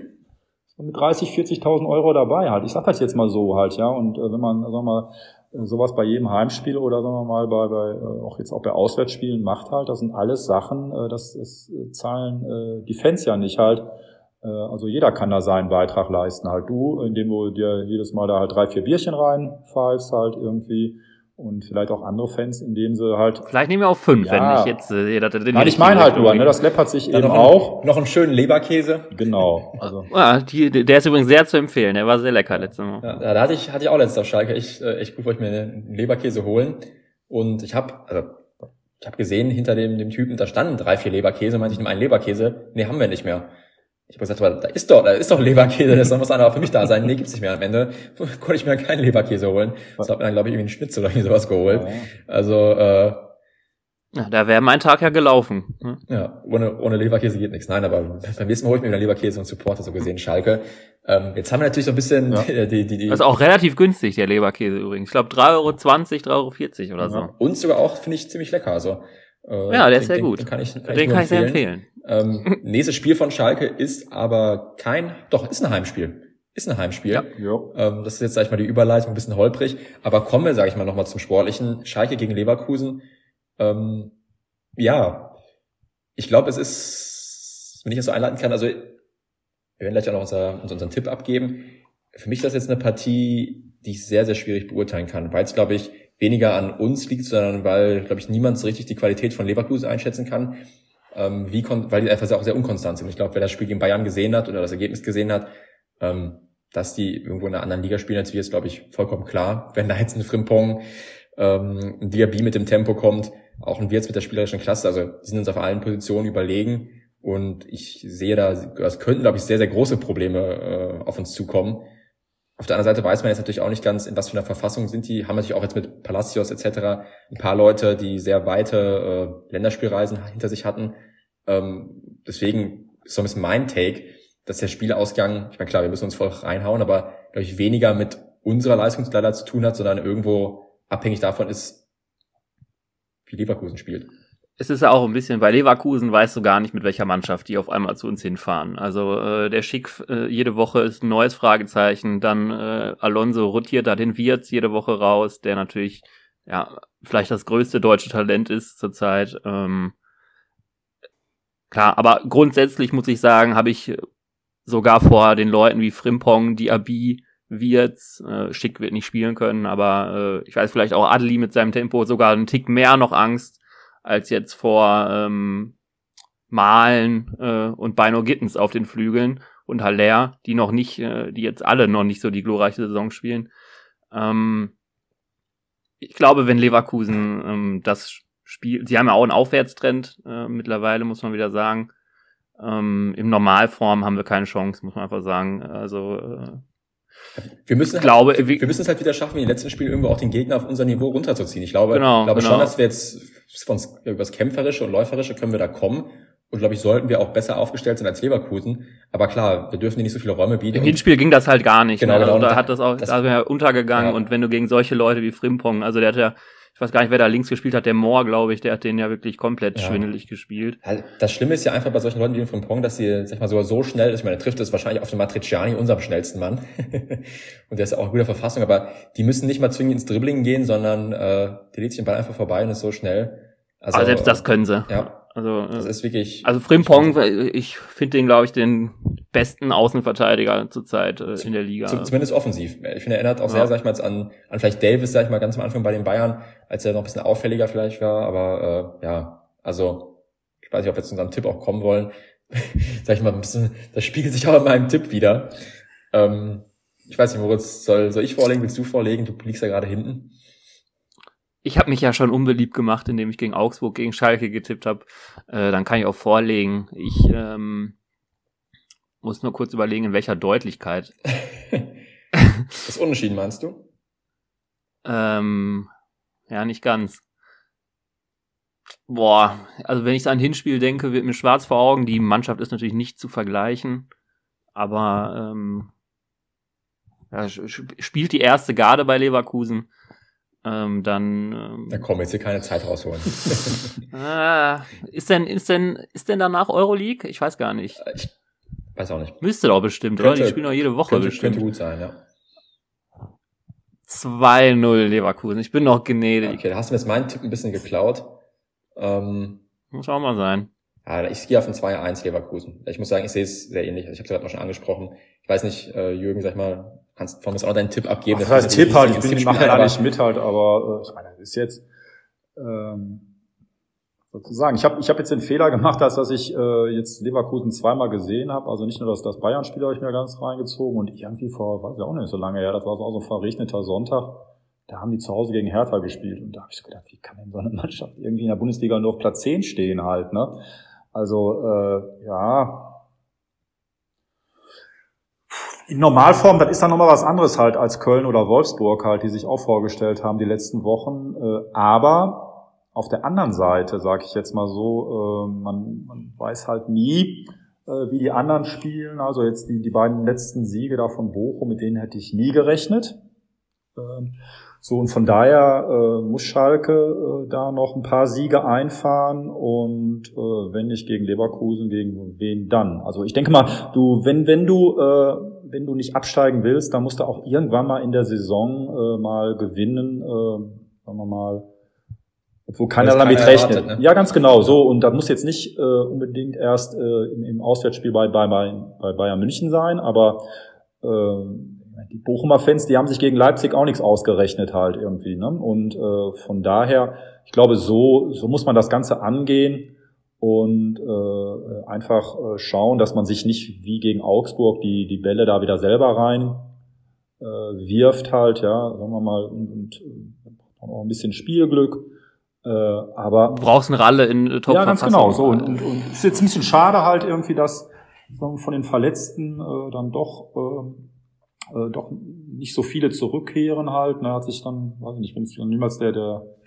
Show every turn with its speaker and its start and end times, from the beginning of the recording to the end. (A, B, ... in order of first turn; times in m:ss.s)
0:00.8-0:13.8 A
0:14.4-0:23.5 A
0:23.4-0:26.5 B
0:24.2-0:24.7 A
0:25.5-0:27.8 A
0:27.1-0:29.5 C
0:29.1-0:30.1 A
0:30.1-0:33.1 B
0:33.0-0:38.5 C
0:39.0-0:43.5 C
0:44.1-0:53.3 C
0:51.7-0:52.1 A
0:54.1-0:56.0 B
0:56.1-1:03.2 C
1:03.1-1:07.3 B
1:07.0-1:07.3 A
1:07.3-1:23.0 C
1:09.7-1:11.9 B
1:17.3-1:17.7 A
1:23.6-1:24.1 C
1:24.8-1:25.4 C
1:26.2-1:29.0 C
1:29.8-1:50.8 C
1:51.4-2:01.9 C
2:02.6-2:21.8 C
2:23.3-2:24.1 C
2:24.6-2:40.0 B
2:41.7-2:44.0 B
2:44.7-2:55.8 B
2:56.5-3:03.5 B
3:04.1-3:04.7 B
3:06.0-3:11.9 B
3:12.6-3:16.6 B
3:17.4-3:31.0 C
3:18.0-3:18.7 B
3:21.9-3:22.7 B
3:30.7-3:40.8 B
3:32.0-3:33.2 C
3:39.8-3:40.0 C
3:40.8-3:55.2 C
3:53.9-3:55.9 B
3:55.7-3:57.2 C
3:56.4-4:02.1 B
4:01.4-4:15.5 C
4:16.1-4:20.3 C
4:21.6-4:28.0 B
4:29.2-4:31.1 B
4:31.4-4:31.9 C
4:32.8-4:33.8 C
4:35.0-4:35.9 B
4:36.5-4:37.2 B
4:39.1-4:44.1 B
4:44.8-4:45.9 B
4:47.3-4:49.9 B
4:50.6-4:52.0 B
4:51.9-4:53.9 C
4:54.1-4:58.1 B
4:59.0-4:59.4 C
4:59.4-5:01.7 B
5:00.2-5:02.2 C
5:04.1-5:06.6 B
5:06.4-5:08.4 C
5:09.0-5:09.6 C
5:09.9-5:10.7 B
5:11.0-5:20.0 C
5:18.3-5:21.8 A
5:22.6-5:23.2 A
5:24.3-5:40.6 A
5:41.1-5:43.0 A
5:45.5-6:03.2 A
6:04.0-6:21.7 A
6:22.7-6:30.5 A
6:23.0-6:24.0 C
6:31.0-6:46.7 A
6:47.4-6:52.1 A
6:52.6-6:53.6 A
6:53.5-6:55.8 B
6:54.7-7:01.0 A
7:01.7-7:06.5 A